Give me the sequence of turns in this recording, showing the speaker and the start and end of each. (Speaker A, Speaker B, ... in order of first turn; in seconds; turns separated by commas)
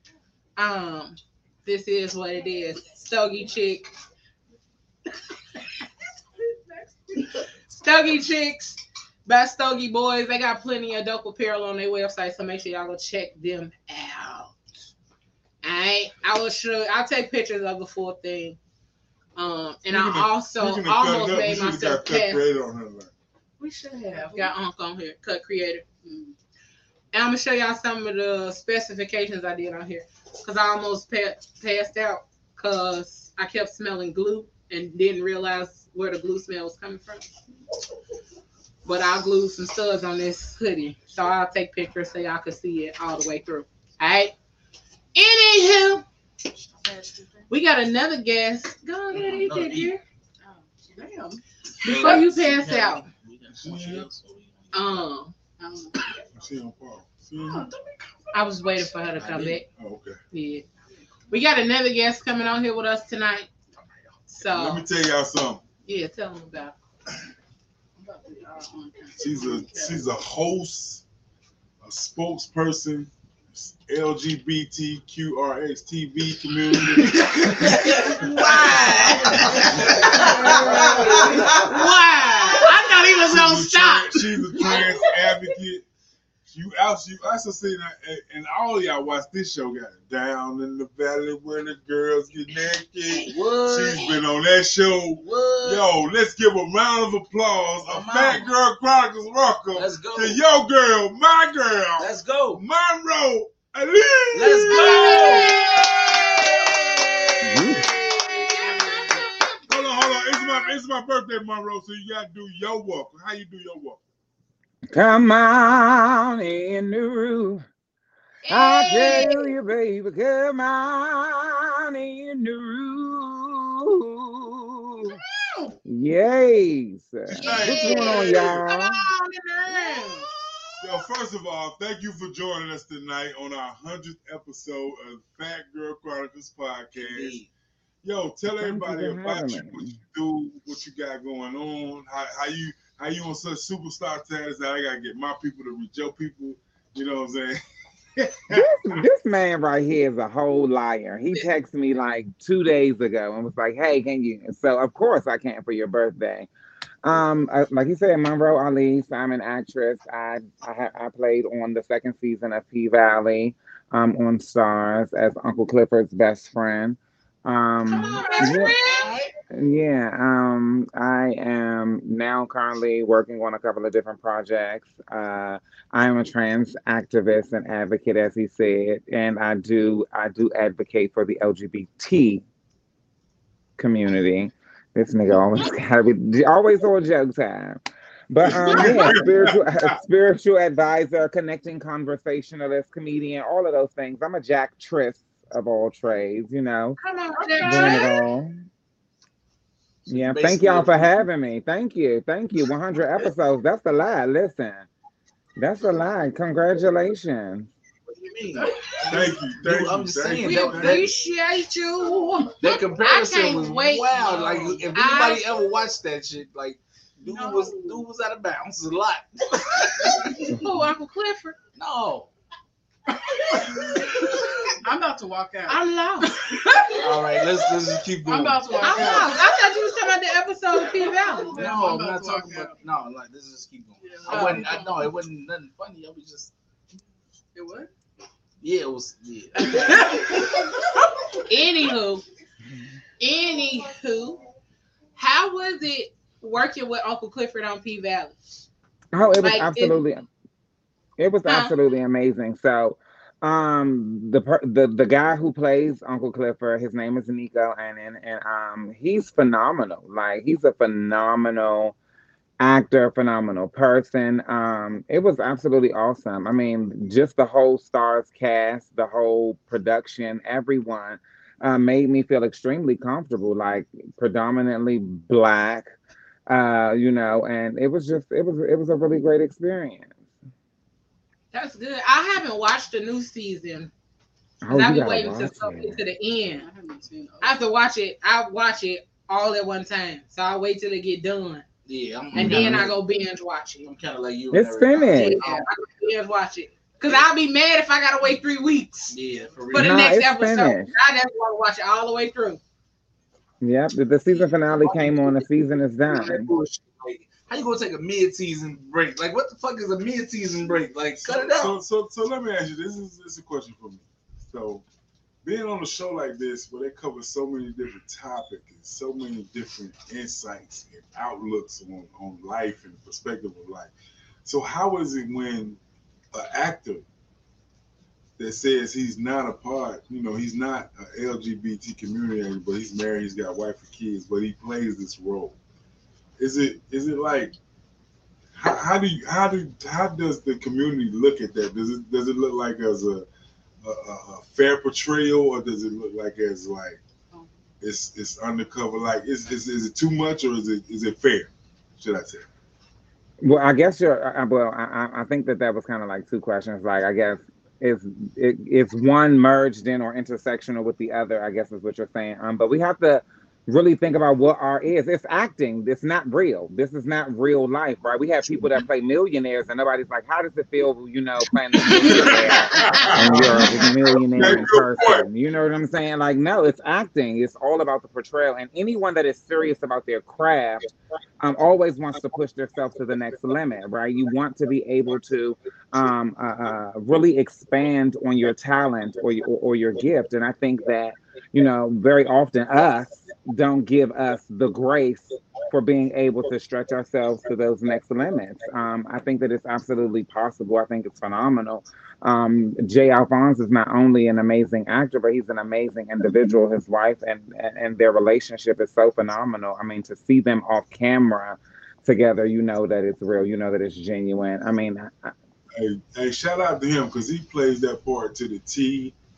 Speaker A: 0.6-3.9, Speaker B: 6.4-7.3, Speaker A: 7.7-14.5, Speaker A: 15.6-18.6, Speaker A: 19.4-22.4, Speaker C: 19.9-23.1, Speaker B: 23.6-24.5, Speaker A: 24.1-25.8, Speaker B: 26.0-26.3, Speaker A: 27.1-37.2, Speaker A: 38.8-44.3, Speaker A: 45.1-46.0, Speaker B: 46.7-47.5, Speaker A: 47.5-50.0, Speaker D: 49.1-49.9, Speaker B: 50.4-52.2, Speaker A: 51.8-53.0, Speaker D: 51.8-55.1, Speaker C: 53.6-54.1, Speaker A: 54.7-55.3, Speaker B: 55.6-56.2, Speaker C: 56.3-57.7, Speaker B: 57.4-57.7, Speaker A: 58.3-59.6, Speaker D: 59.2-59.6, Speaker C: 59.8-60.2, Speaker A: 60.3-60.6, Speaker A: 61.3-63.5, Speaker A: 64.3-64.8, Speaker C: 64.4-65.6, Speaker A: 65.8-66.7, Speaker B: 68.0-70.0, Speaker C: 69.2-71.0, Speaker C: 71.8-78.1, Speaker D: 77.1-80.1, Speaker A: 78.0-79.5, Speaker A: 80.2-84.2, Speaker B: 80.3-81.4, Speaker C: 83.2-85.8, Speaker C: 86.5-105.4, Speaker D: 93.3-94.2, Speaker D: 95.2-95.8, Speaker D: 97.8-98.5, Speaker D: 99.7-100.4, Speaker D: 102.0-102.6, Speaker D: 104.3-105.5, Speaker A: 104.7-106.7, Speaker B: 104.8-105.6, Speaker D: 106.1-107.6, Speaker E: 107.4-107.9, Speaker A: 107.5-110.7, Speaker B: 108.3-109.3, Speaker C: 109.7-114.0, Speaker E: 114.9-117.7, Speaker A: 118.5-119.5, Speaker E: 118.5-125.2, Speaker B: 125.3-125.7, Speaker E: 125.8-129.0, Speaker C: 127.3-128.6, Speaker A: 127.3-130.3, Speaker B: 129.7-130.2, Speaker C: 130.8-137.4, Speaker D: 136.9-137.5, Speaker C: 138.0-147.6, Speaker E: 138.6-139.9, Speaker C: 148.2-148.7, Speaker E: 148.5-156.5, Speaker E: 157.0-168.7, Speaker A: 167.9-169.2, Speaker D: 168.2-169.3, Speaker E: 169.5-182.4, Speaker E: 183.8-197.0, Speaker C: 188.4-190.0, Speaker A: 197.0-198.2, Speaker B: 197.3-198.2, Speaker E: 197.6-198.6, Speaker D: 200.1-201.1, Speaker E: 200.1-204.9, Speaker E: 205.6-207.7, Speaker D: 208.1-211.1, Speaker B: 208.5-209.3, Speaker C: 209.0-211.1, Speaker A: 210.4-215.5, Speaker D: 212.6-219.9, Speaker B: 214.1-214.9, Speaker A: 217.2-217.9, Speaker A: 220.5-221.6, Speaker D: 221.8-222.3, Speaker B: 224.8-227.4, Speaker A: 225.7-226.3, Speaker D: 227.0-229.3, Speaker B: 228.2-229.4, Speaker A: 228.8-231.6, Speaker B: 231.5-232.7, Speaker D: 231.5-236.5, Speaker B: 234.0-235.1, Speaker A: 234.3-234.7, Speaker B: 237.5-237.9, Speaker D: 238.6-240.3, Speaker B: 239.6-240.5, Speaker A: 241.5-242.2, Speaker A: 243.2-244.4, Speaker A: 245.2-248.3, Speaker E: 249.1-250.3, Speaker A: 249.4-250.0, Speaker E: 251.2-261.9, Speaker A: 251.4-251.7, Speaker E: 262.6-275.9, Speaker E: 276.5-280.2, Speaker A: 281.5-283.9, Speaker E: 284.6-286.0, Speaker A: 284.7-286.6, Speaker B: 286.5-287.7, Speaker A: 287.4-291.6, Speaker D: 291.9-292.9, Speaker E: 292.3-292.9, Speaker A: 292.4-293.9, Speaker D: 293.8-295.7, Speaker E: 294.5-295.4, Speaker A: 295.1-299.1, Speaker D: 299.1-300.0, Speaker E: 299.7-300.9, Speaker A: 299.7-302.6, Speaker E: 303.6-306.5, Speaker D: 304.3-305.5, Speaker D: 306.1-311.8, Speaker C: 311.2-314.8, Speaker C: 315.4-323.9, Speaker C: 324.4-325.8, Speaker C: 326.3-327.0, Speaker C: 328.4-335.6, Speaker C: 336.4-337.5, Speaker C: 338.5-343.2, Speaker C: 343.8-347.0, Speaker C: 347.8-352.5, Speaker E: 353.4-415.3, Speaker A: 371.9-373.1, Speaker C: 371.9-375.2, Speaker C: 415.7-419.1